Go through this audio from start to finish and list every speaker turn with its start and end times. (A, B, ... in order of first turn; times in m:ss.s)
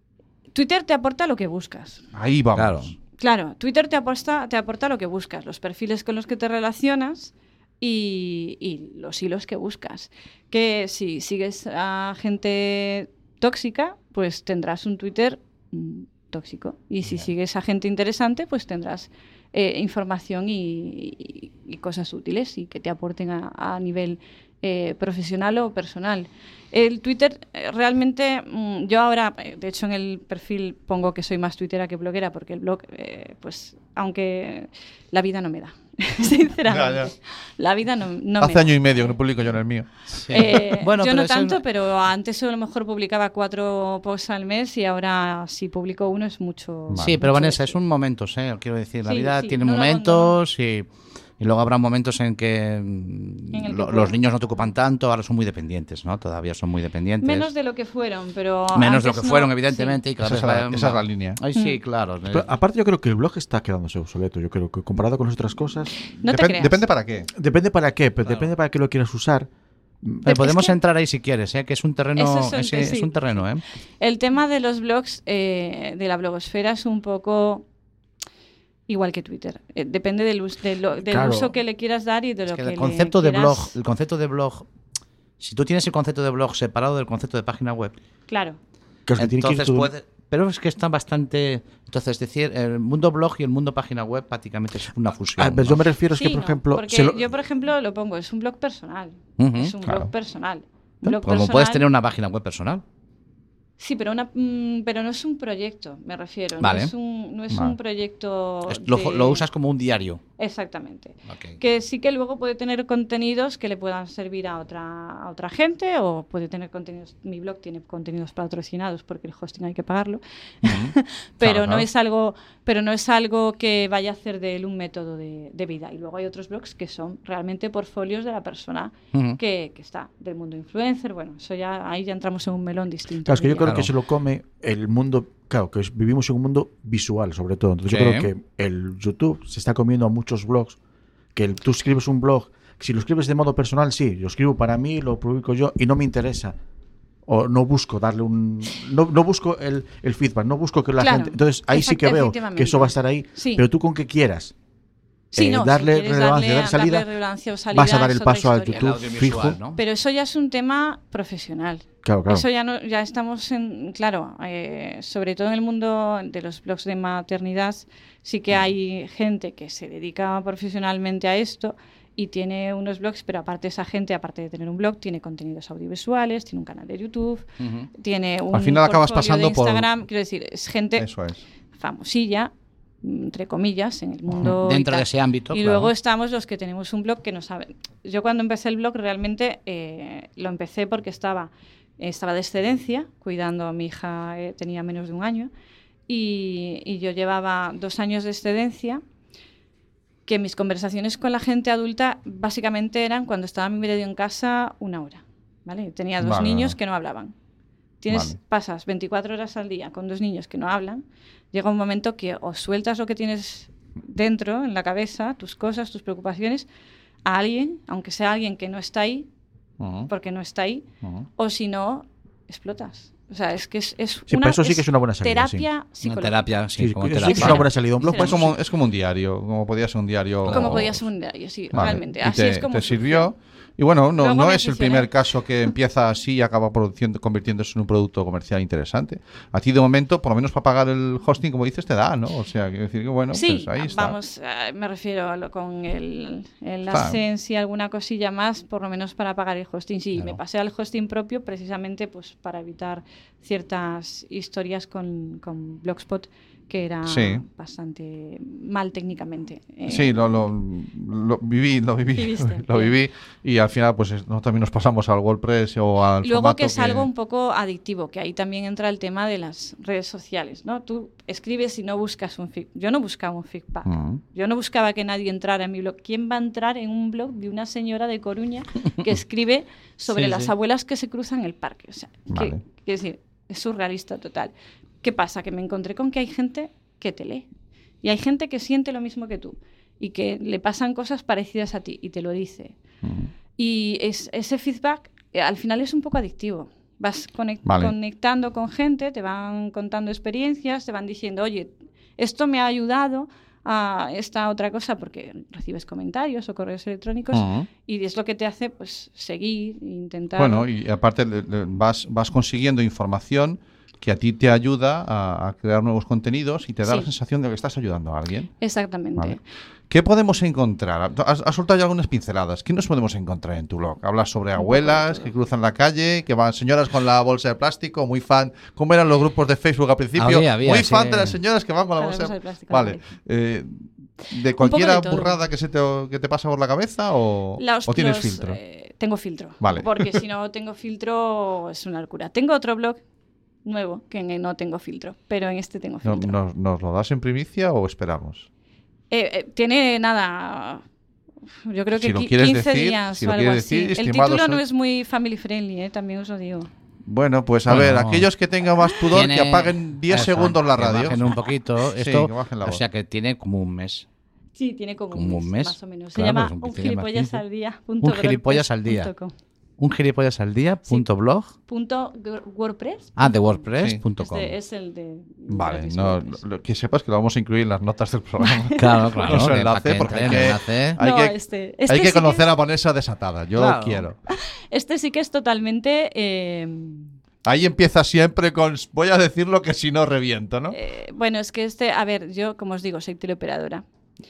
0:00.5-0:02.0 A
0:02.1-0:02.9 B
0:02.6-0:02.9 C
0:03.2-0:39.2 A
0:36.7-0:37.1 B
0:38.4-0:40.5 B
0:40.1-0:41.6 C
0:40.3-0:47.7 A
0:46.9-0:47.2 B
0:47.0-0:50.9 C
0:49.0-0:50.4 A
0:51.4-0:57.5 C
0:53.5-0:54.2 A
0:57.2-1:00.0 A
0:58.7-1:02.5 C
1:00.2-1:01.4 B
1:01.5-1:01.8 A
1:02.3-1:05.9 D
1:06.0-1:06.8 A
1:06.2-1:07.3 B
1:07.4-1:09.5 D
1:10.0-1:10.3 D
1:10.3-1:13.6 C
1:10.3-1:10.8 A
1:12.2-1:13.4 A
1:14.0-1:17.6 A
1:18.9-1:23.7 A
1:21.0-1:21.5 D
1:22.5-1:24.7 C
1:25.4-1:28.0 C
1:28.3-1:28.6 A
1:29.1-1:29.9 D
1:29.2-1:35.9 C
1:35.4-1:37.2 D
1:36.1-1:41.9 A
1:39.4-1:39.8 C
1:41.0-1:42.8 C
1:43.8-1:49.4 A
1:46.6-1:46.9 C
1:47.5-1:47.8 B
1:48.7-1:50.2 C
1:50.4-2:13.9 A
1:51.3-1:51.6 C
2:00.6-2:01.9 B
2:09.1-2:09.4 C
2:13.3-2:20.8 D
2:17.9-2:18.3 C
2:21.4-2:26.6 D
2:27.3-2:34.5 D
2:31.0-2:33.7 A
2:35.3-2:39.0 A
2:35.4-2:37.1 D
2:37.7-2:39.4 D
2:38.7-2:39.8 C
2:39.2-2:39.5 B
2:39.7-2:57.4 A
2:42.0-2:42.4 D
2:57.6-2:57.9 C
2:58.0-3:01.1 A
2:58.5-2:59.9 B
3:01.0-3:01.4 B
3:01.7-3:02.5 A
3:03.0-3:15.5 A
3:04.3-3:05.9 C
3:16.1-3:19.0 A
3:20.3-3:27.3 A
3:26.2-3:26.8 B
3:28.0-3:36.7 A
3:28.1-3:28.4 B
3:37.2-3:39.3 A
3:39.8-3:40.1 B
3:40.1-3:40.8 A
3:41.4-3:46.5 A
3:44.3-3:45.7 D
3:46.0-3:47.7 C
3:46.8-3:48.6 D
3:47.2-3:48.6 A
3:47.4-3:51.0 B
3:50.4-3:50.8 C
3:50.5-3:53.3 A
3:51.7-4:04.2 B
3:54.2-3:55.1 A
4:03.3-4:20.1 A
4:06.9-4:07.2 B
4:17.0-4:17.4 B
4:19.9-4:27.1 B
4:22.2-4:22.9 A
4:26.2-4:47.5 A
4:33.9-4:34.2 B
4:40.1-4:40.5 C
4:42.3-4:42.6 B
4:48.0-4:52.8 A
4:53.0-4:53.3 B
4:53.6-5:10.7 A
4:57.7-4:58.0 B
5:07.3-5:07.7 B
5:10.4-5:18.5 B
5:18.6-5:19.4 A
5:19.9-5:38.6 B
5:24.6-5:25.3 A
5:30.2-5:31.4 C
5:32.0-5:33.0 A
5:34.6-5:35.4 A
5:37.6-5:43.0 A
5:39.6-5:40.2 B
5:43.6-5:46.4 A
5:46.0-5:48.5 B
5:49.1-5:50.8 A
5:51.6-5:56.7 A
5:52.0-5:54.6 B
5:57.1-6:01.3 B
5:57.7-5:58.3 C
5:59.1-6:04.1 C
6:01.9-6:02.8 B
6:04.6-6:09.3 A
6:05.1-6:07.4 C
6:08.0-6:09.1 C
6:09.8-6:11.5 C
6:11.7-6:16.4 A
6:13.2-6:14.6 C
6:15.5-6:24.2 B
6:18.4-6:19.4 A
6:18.8-6:21.0 C
6:21.0-6:22.5 A
6:23.6-6:24.1 C
6:24.3-6:27.1 A
6:27.4-6:30.8 B
6:30.7-6:33.8 A